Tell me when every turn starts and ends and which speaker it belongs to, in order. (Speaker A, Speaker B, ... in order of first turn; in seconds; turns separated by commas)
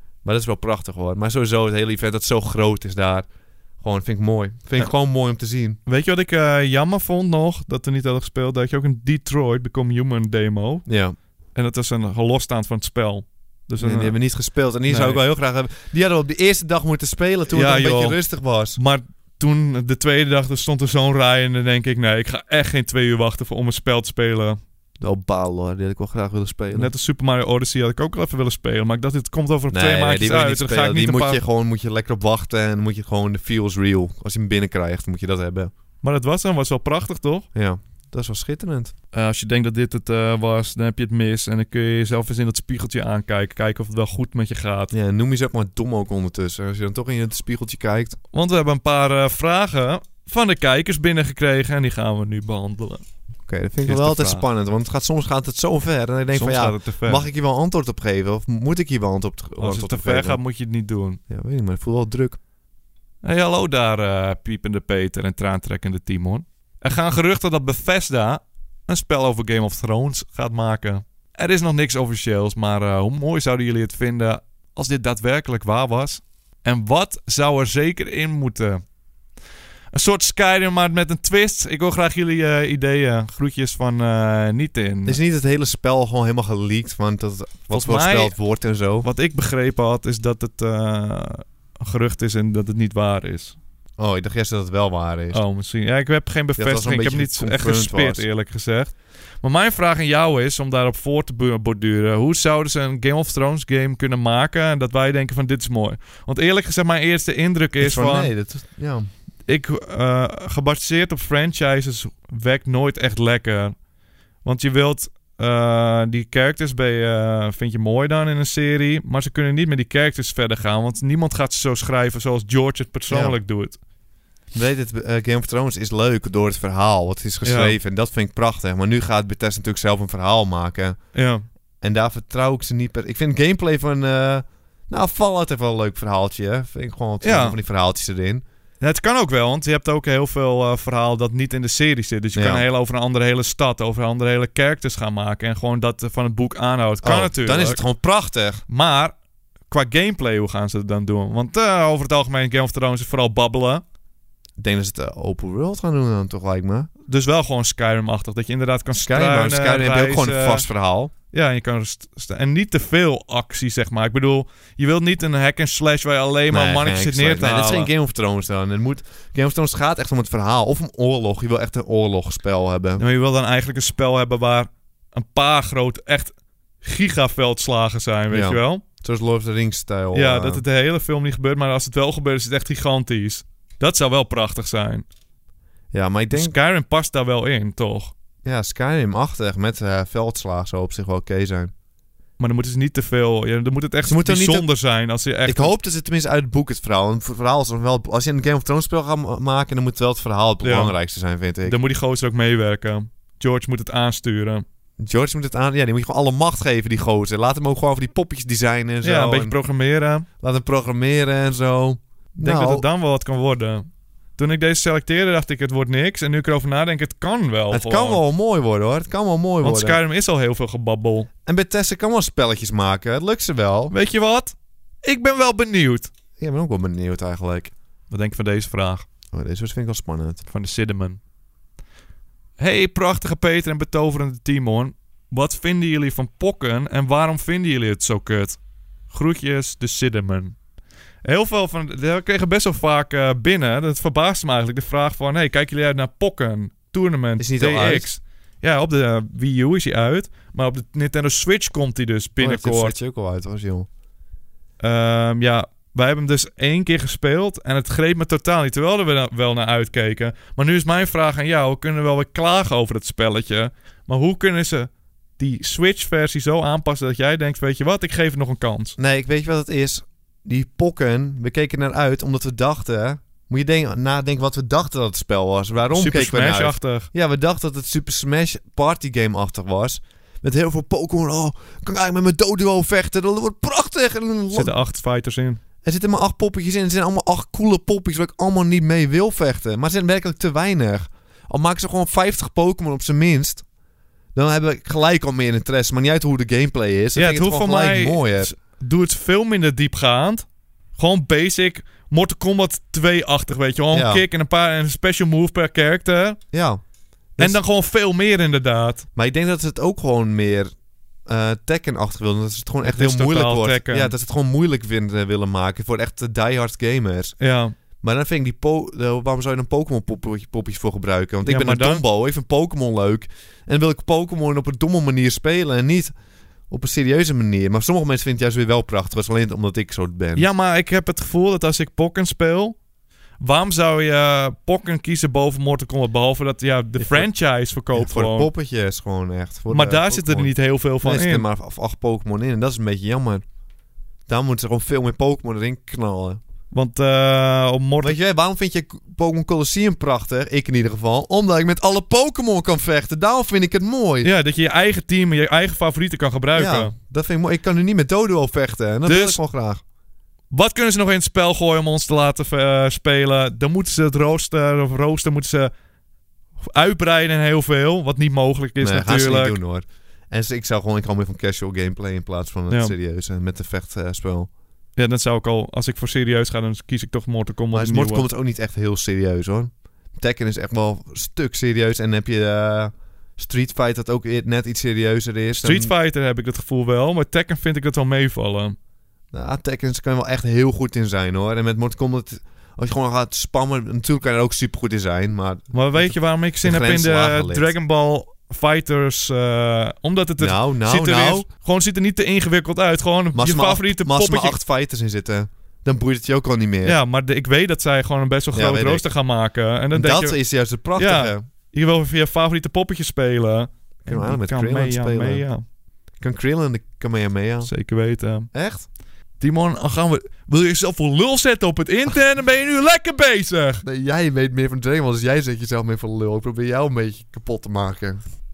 Speaker A: 0.2-3.2, Speaker A: 3.8-5.8, Speaker B: 5.8-10.8, Speaker A: 10.8-11.2, Speaker B: 11.5-14.2, Speaker A: 13.8-18.8, Speaker B: 14.8-15.2, Speaker B: 17.5-18.2, Speaker B: 18.8-24.6, Speaker A: 25.0-26.9, Speaker B: 26.7-31.4, Speaker A: 29.7-35.7, Speaker B: 36.0-37.5, Speaker A: 37.5-38.9, Speaker B: 39.1-44.9, Speaker A: 44.9-48.2, Speaker B: 48.3-53.0, Speaker A: 53.5-60.4, Speaker B: 53.8-54.4, Speaker B: 56.3-57.3, Speaker B: 59.6-61.2, Speaker A: 61.3-62.4, Speaker B: 63.2-78.8, Speaker B: 79.9-85.2, Speaker A: 85.0-89.1, Speaker B: 87.7-88.3, Speaker B: 89.0-93.6, Speaker A: 94.0-95.4, Speaker B: 95.3-108.3, Speaker A: 96.6-98.2, Speaker A: 107.8-109.1, Speaker B: 109.5-113.7, Speaker B: 114.4-123.8, Speaker A: 123.1-123.4, Speaker A: 124.5-130.9, Speaker B: 127.4-127.8, Speaker B: 131.1-131.4, Speaker A: 131.8-138.4, Speaker B: 137.2-137.6, Speaker B: 138.8-147.8, Speaker A: 142.3-142.7, Speaker A: 147.0-148.6, Speaker B: 148.7-149.1, Speaker B: 149.7-153.8, Speaker A: 154.6-156.9, Speaker B: 157.1-160.7, Speaker A: 158.9-161.1, Speaker B: 161.3-167.9, Speaker A: 166.5-173.0, Speaker B: 173.0-178.8, Speaker A: 178.3-180.6, Speaker B: 180.1-185.1, Speaker A: 185.9-186.6, Speaker B: 186.3-188.1, Speaker A: 188.4-191.7, Speaker B: 192.4-195.7, Speaker A: 194.1-194.7, Speaker A: 195.4-201.8, Speaker B: 200.6-200.9, Speaker B: 201.6-204.6, Speaker A: 205.0-209.6, Speaker B: 209.0-210.3, Speaker A: 210.4-212.8, Speaker B: 212.4-213.8, Speaker B: 214.4-218.2, Speaker A: 217.7-220.0, Speaker B: 219.6-221.3, Speaker A: 221.4-223.9, Speaker B: 223.9-226.1, Speaker A: 226.4-227.7, Speaker B: 228.1-229.1, Speaker A: 229.3-230.4, Speaker B: 230.4-231.2, Speaker B: 232.6-238.6, Speaker B: 239.1-240.5, Speaker B: 241.2-252.9, Speaker A: 247.4-248.1, Speaker A: 252.4-253.9, Speaker B: 254.8-268.9, Speaker A: 269.0-284.7, Speaker B: 275.9-277.1, Speaker B: 284.5-285.6, Speaker A: 285.8-293.6, Speaker A: 294.3-298.5, Speaker B: 297.1-300.4, Speaker B: 301.0-306.4, Speaker A: 303.9-304.2, Speaker A: 306.5-306.8, Speaker B: 307.4-309.0, Speaker A: 309.1-310.7, Speaker A: 311.3-317.4, Speaker B: 312.8-314.1, Speaker B: 317.4-317.7, Speaker A: 318.0-326.1, Speaker B: 321.4-322.0, Speaker A: 326.7-330.5, Speaker B: 330.4-332.8, Speaker B: 333.4-338.5, Speaker A: 337.0-337.3, Speaker A: 337.9-343.4, Speaker B: 339.7-341.4, Speaker A: 344.3-346.4, Speaker B: 346.7-348.1, Speaker A: 348.0-354.3, Speaker B: 354.2-356.9, Speaker A: 356.5-359.8, Speaker B: 359.0-359.4, Speaker B: 360.5-365.7, Speaker B: 366.6-369.6, Speaker A: 368.8-374.5, Speaker B: 374.9-378.3, Speaker A: 377.7-385.9, Speaker B: 385.6-388.8, Speaker A: 389.3-397.7, Speaker B: 395.7-404.6, Speaker A: 400.4-401.4, Speaker A: 403.3-407.0, Speaker B: 406.8-410.4, Speaker A: 408.5-409.1, Speaker A: 409.9-411.4, Speaker B: 410.9-415.6, Speaker A: 414.0-415.5, Speaker A: 416.2-417.7, Speaker B: 417.6-418.5, Speaker A: 418.5-418.9, Speaker B: 419.4-423.8, Speaker A: 423.8-428.2